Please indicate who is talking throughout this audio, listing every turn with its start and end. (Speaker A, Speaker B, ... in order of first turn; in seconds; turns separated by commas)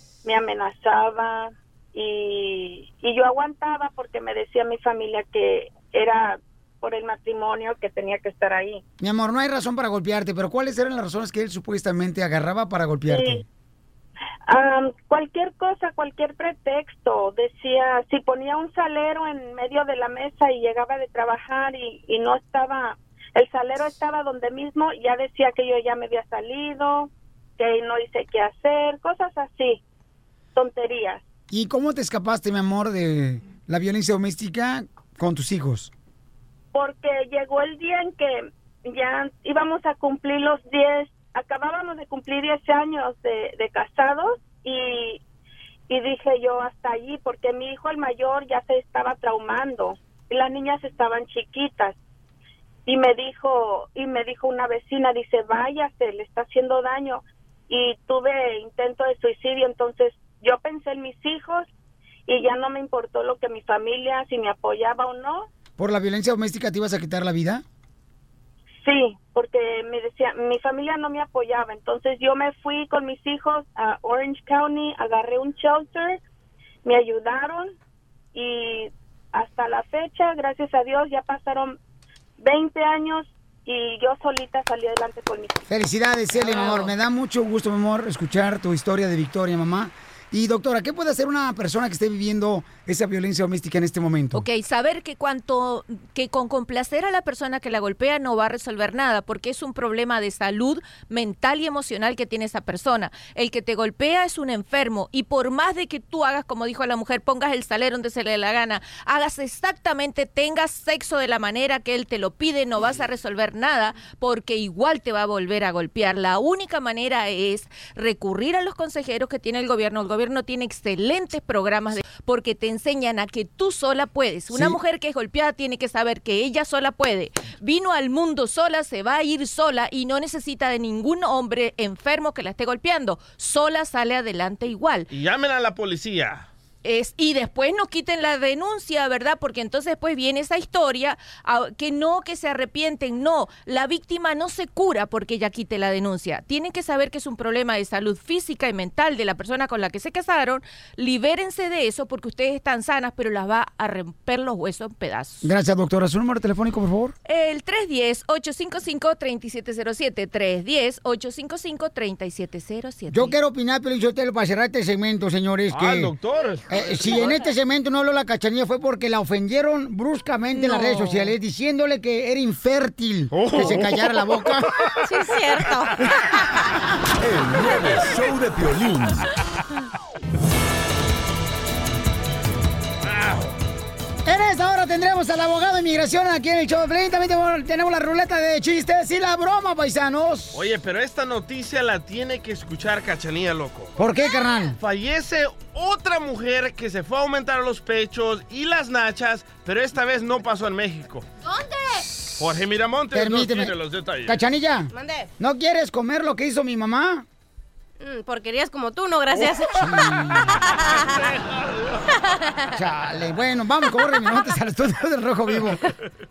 Speaker A: 0.2-8.8, Speaker B: 9.0-13.4, Speaker A: 13.1-13.4, Speaker A: 14.5-29.8, Speaker A: 30.6-31.2, Speaker B: 31.5-35.9, Speaker A: 36.7-45.2, Speaker A: 45.9-52.0, Speaker A: 52.9-61.7, Speaker A: 62.3-65.5, Speaker B: 65.8-67.6, Speaker A: 68.8-76.2, Speaker A: 76.8-77.8, Speaker A: 78.3-81.8, Speaker A: 82.4-85.6, Speaker B: 85.7-94.4, Speaker C: 86.4-86.9, Speaker C: 94.3-135.1, Speaker D: 135.1-136.5, Speaker C: 136.8-155.5, Speaker B: 155.4-157.1, Speaker C: 157.2-163.3, Speaker B: 163.1-166.1, Speaker D: 165.7-167.4, Speaker B: 166.7-174.7, Speaker E: 170.6-171.2, Speaker D: 173.3-174.3, Speaker E: 175.0-176.1, Speaker F: 177.2-179.2, Speaker D: 183.1-183.5, Speaker B: 184.2-190.6, Speaker D: 190.5-193.9, Speaker B: 194.0-194.8, Speaker D: 194.8-201.2, Speaker E: 201.4-202.1, Speaker D: 202.4-204.4, Speaker B: 203.1-203.7, Speaker B: 204.2-207.2, Speaker E: 204.9-205.3, Speaker E: 208.0-211.2, Speaker B: 209.7-210.6, Speaker D: 210.9-212.1, Speaker E: 212.2-212.7, Speaker B: 212.7-215.8